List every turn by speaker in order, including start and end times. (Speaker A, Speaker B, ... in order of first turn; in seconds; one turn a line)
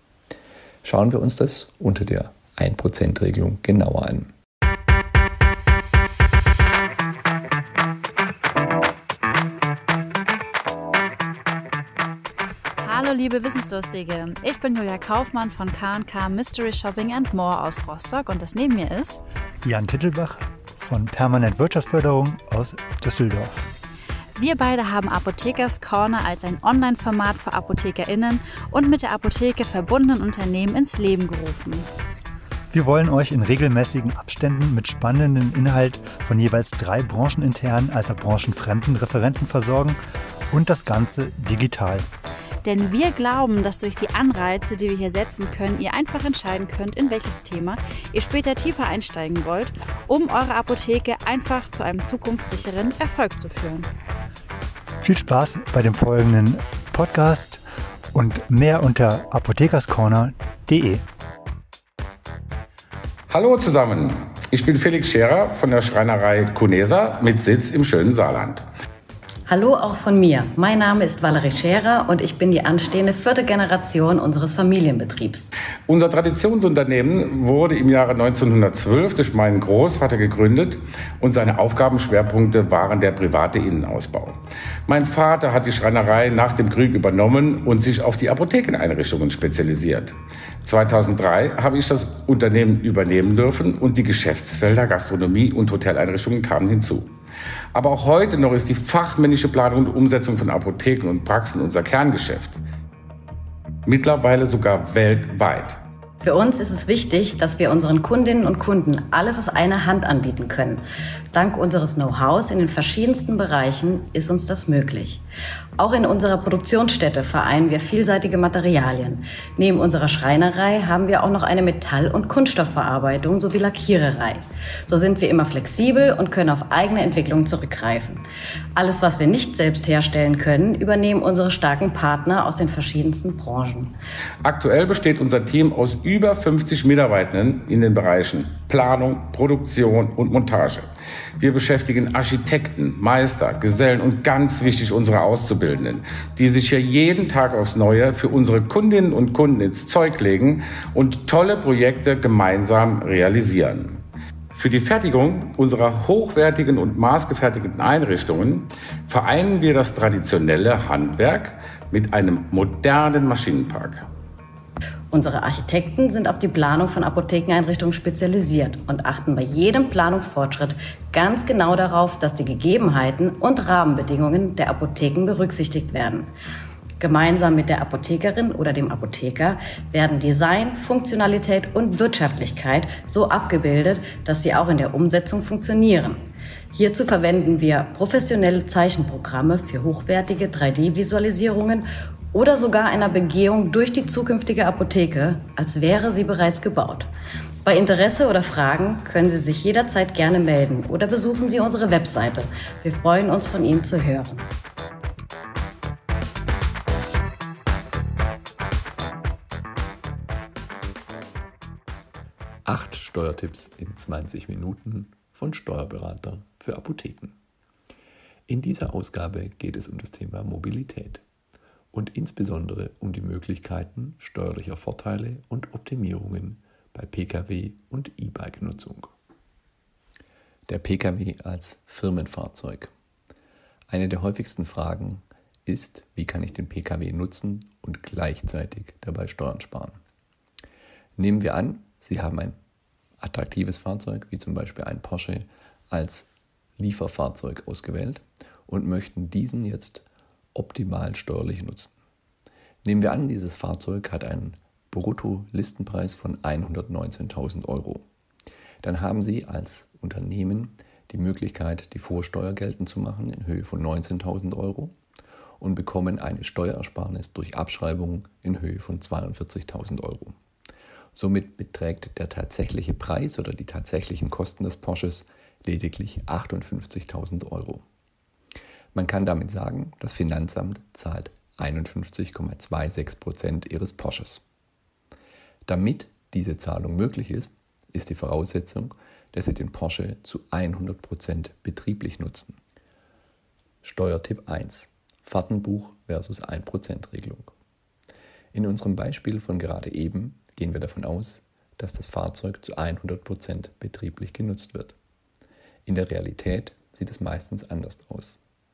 Speaker A: 0.8-4.3
Speaker B: 12.8-19.2
Speaker C: 19.6-23.7
Speaker B: 24.4-31.9
Speaker C: 32.7-40.0
Speaker C: 40.5-42.1
Speaker B: 42.6-53.9
Speaker C: 55.0-57.6
Speaker C: 58.1-61.0
Speaker D: 63.3-68.7
Speaker E: 69.5-75.5
Speaker D: 75.9-97.1
Speaker D: 97.7-102.6
Speaker D: 103.9-105.8
Speaker E: 106.2-115.2
Speaker E: 115.8-128.2
Speaker E: 128.8-134.0
Speaker D: 134.4-140.9
Speaker D: 141.4-164.1
Speaker E: 165.1-176.3
Speaker E: 177.0-197.1
Speaker E: 197.7-204.5
Speaker A: 212.7-217.4
Speaker A: 218.5-221.2
Speaker A: 221.9-229.1
Speaker A: 230.7-232.9
Speaker A: 233.9-240.0
Speaker A: 241.2-242.6
Speaker A: 243.2-251.9
Speaker A: 252.8-258.1
Speaker A: 258.8-264.9
Speaker A: 265.6-270.4
Speaker A: 271.1-277.8
Speaker A: 278.9-284.4
Speaker A: 285.7-292.6
Speaker A: 293.8-297.5
Speaker A: 298.5-305.0
Speaker A: 305.9-308.4